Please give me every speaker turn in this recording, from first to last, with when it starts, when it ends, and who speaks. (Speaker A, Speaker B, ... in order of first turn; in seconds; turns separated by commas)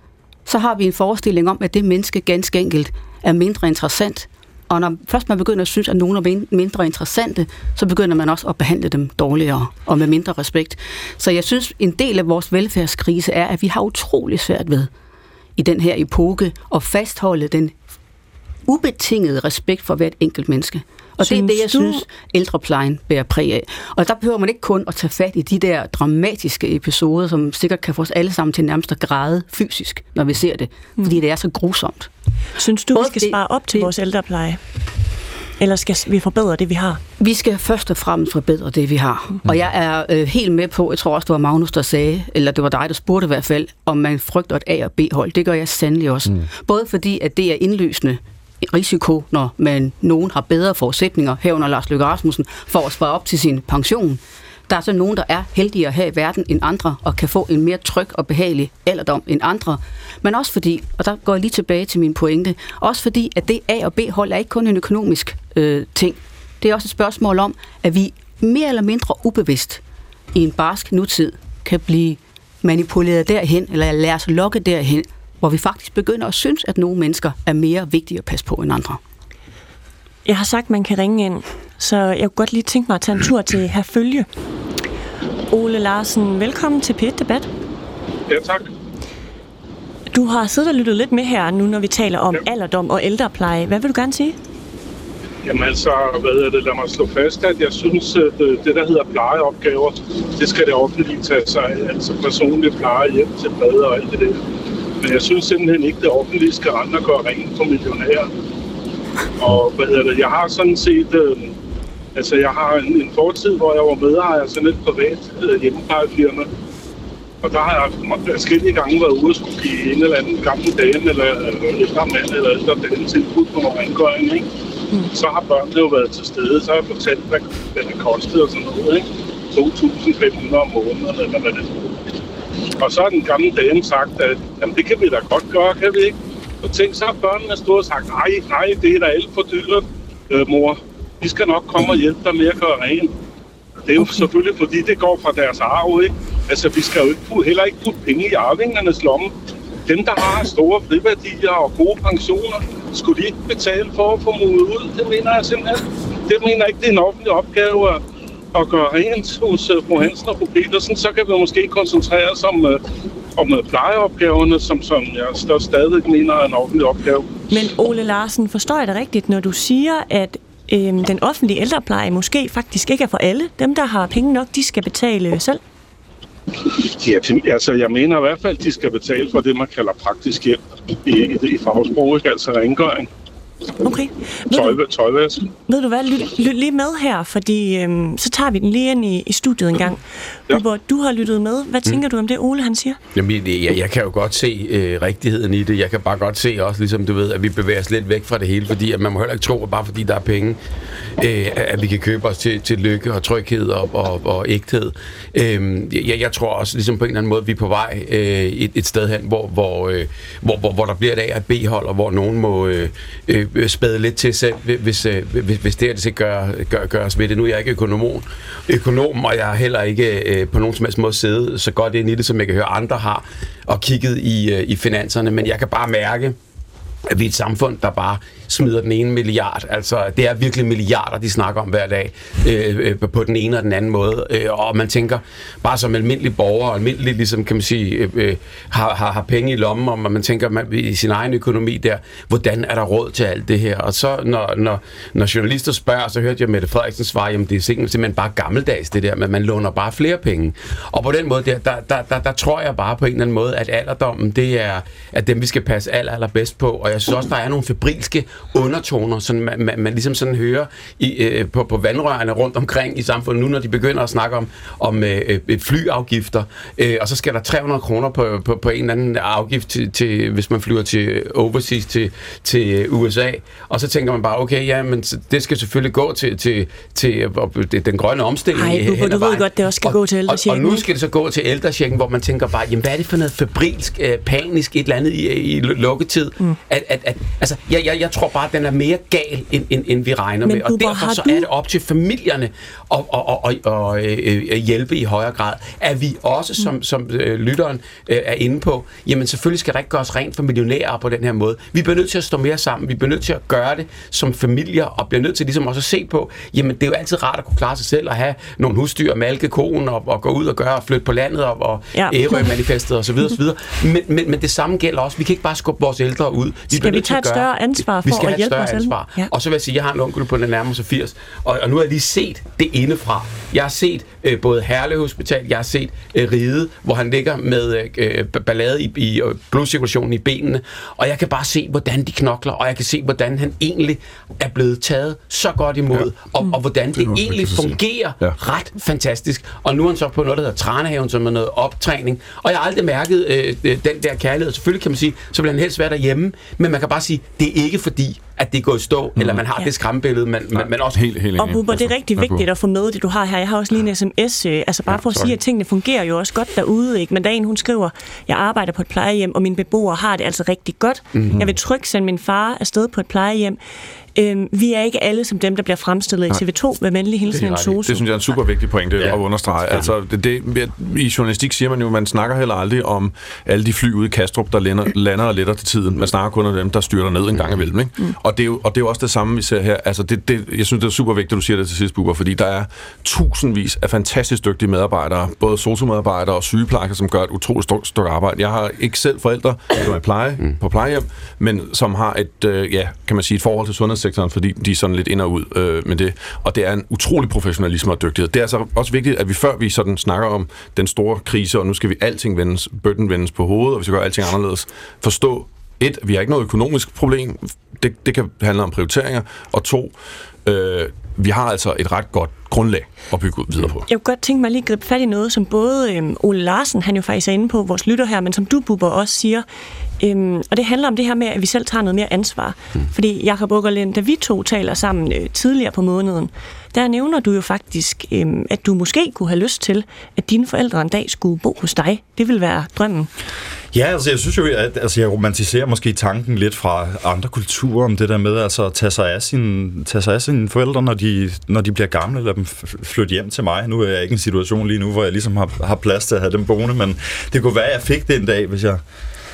Speaker A: 0.5-14.9, Speaker A: 15.6-17.8, Speaker A: 18.7-32.1, Speaker B: 21.2-22.0, Speaker B: 32.6-34.6, Speaker A: 32.9-33.9, Speaker B: 35.6-37.0, Speaker A: 37.2-69.8, Speaker A: 70.3-79.0, Speaker B: 80.2-84.3, Speaker B: 85.5-87.5, Speaker C: 88.3-88.7, Speaker B: 90.1-94.3, Speaker C: 95.4-104.4, Speaker C: 105.0-108.3, Speaker C: 109.4-111.5, Speaker C: 112.1-116.5, Speaker C: 117.4-124.4, Speaker C: 125.1-132.1, Speaker C: 132.8-143.1, Speaker C: 143.8-149.3, Speaker C: 149.9-158.0, Speaker C: 158.5-162.8, Speaker C: 163.3-167.3, Speaker B: 167.5-175.6, Speaker C: 176.8-183.1, Speaker B: 183.8-184.8, Speaker C: 184.5-185.5, Speaker B: 185.7-193.0, Speaker D: 193.1-200.6, Speaker D: 201.2-226.4, Speaker D: 227.1-317.5, Speaker B: 278.5-280.9, Speaker B: 290.4-291.4, Speaker B: 311.9-312.5, Speaker B: 316.7-319.3, Speaker D: 318.0-351.0, Speaker E: 336.9-338.4, Speaker E: 349.2-349.4, Speaker E: 350.5-352.4, Speaker B: 351.4-363.6, Speaker D: 354.9-355.3, Speaker B: 364.1-367.9, Speaker D: 367.3-368.0, Speaker E: 367.9-409.9, Speaker E: 410.4-413.8, Speaker B: 413.9-419.4, Speaker B: 420.0-433.1, Speaker F: 433.7-448.8